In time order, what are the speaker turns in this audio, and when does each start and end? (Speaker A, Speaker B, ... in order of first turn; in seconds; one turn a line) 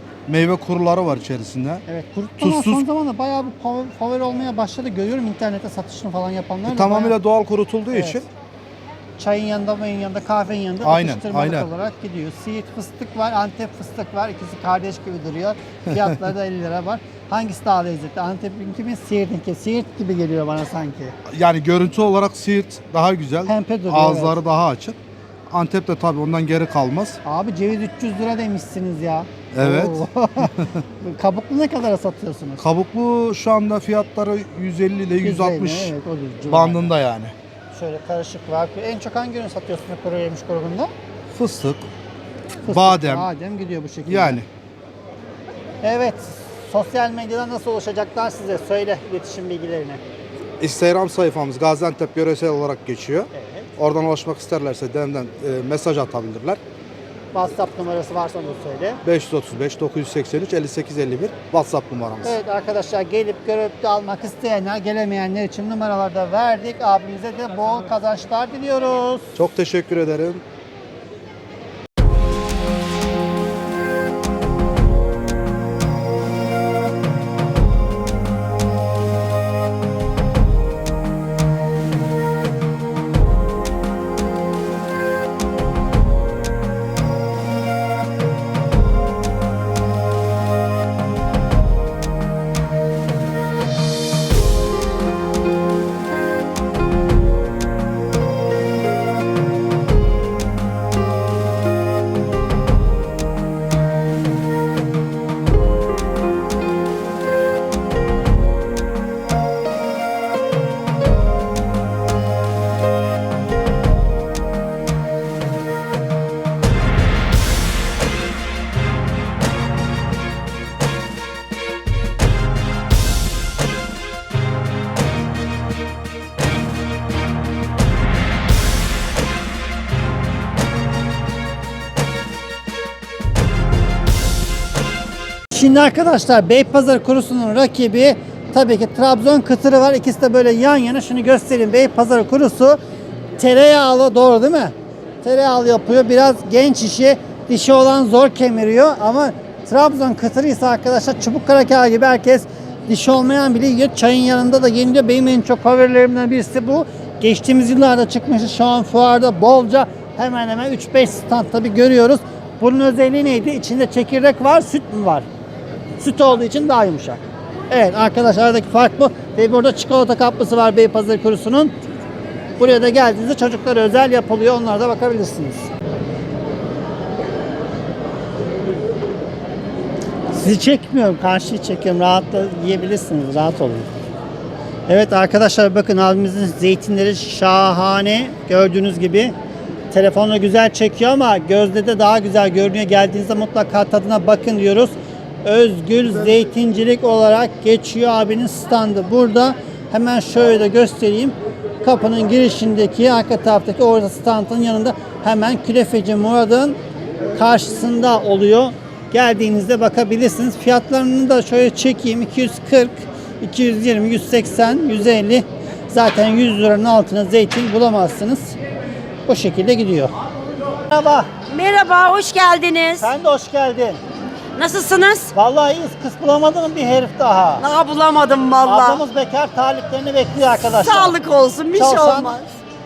Speaker A: 0.3-1.8
Speaker B: 1.9-7.2
Speaker A: 2.4-2.8
Speaker A: 6.7-8.2
Speaker B: 7.9-8.2
Speaker B: 9.2-21.1
Speaker A: 10.8-11.7
Speaker A: 21.3-25.0
Speaker B: 23.5-24.4
Speaker A: 25.5-27.2
Speaker B: 27.2-32.6
Speaker A: 29.5-30.7
Speaker A: 32.6-36.0
Speaker B: 35.2-36.9
Speaker A: 36.5-37.3
Speaker B: 37.7-40.9
Speaker A: 41.3-41.9
Speaker B: 42.6-44.4
Speaker A: 42.7-43.3
Speaker A: 44.0-44.5
Speaker B: 45.8-50.0
Speaker A: 50.6-56.6
Speaker B: 53.3-53.7
Speaker B: 57.3-59.0
Speaker A: 59.0-62.4
Speaker B: 62.2-69.3
Speaker A: 69.4-70.4
Speaker B: 135.5-142.8
Speaker B: 143.4-165.3
Speaker B: 166.0-171.7
Speaker B: 172.6-175.7
Speaker B: 180.3-183.9
Speaker B: 184.9-189.3
Speaker B: 189.9-206.8
Speaker B: 207.3-218.5
Speaker B: 219.3-220.1
Speaker B: 220.9-221.3
Speaker C: 221.5-223.1
Speaker B: 223.0-224.0
Speaker C: 224.6-225.3
Speaker B: 225.3-227.6
Speaker C: 227.6-229.1
Speaker B: 228.6-231.2
Speaker C: 230.5-232.4
Speaker B: 231.7-232.4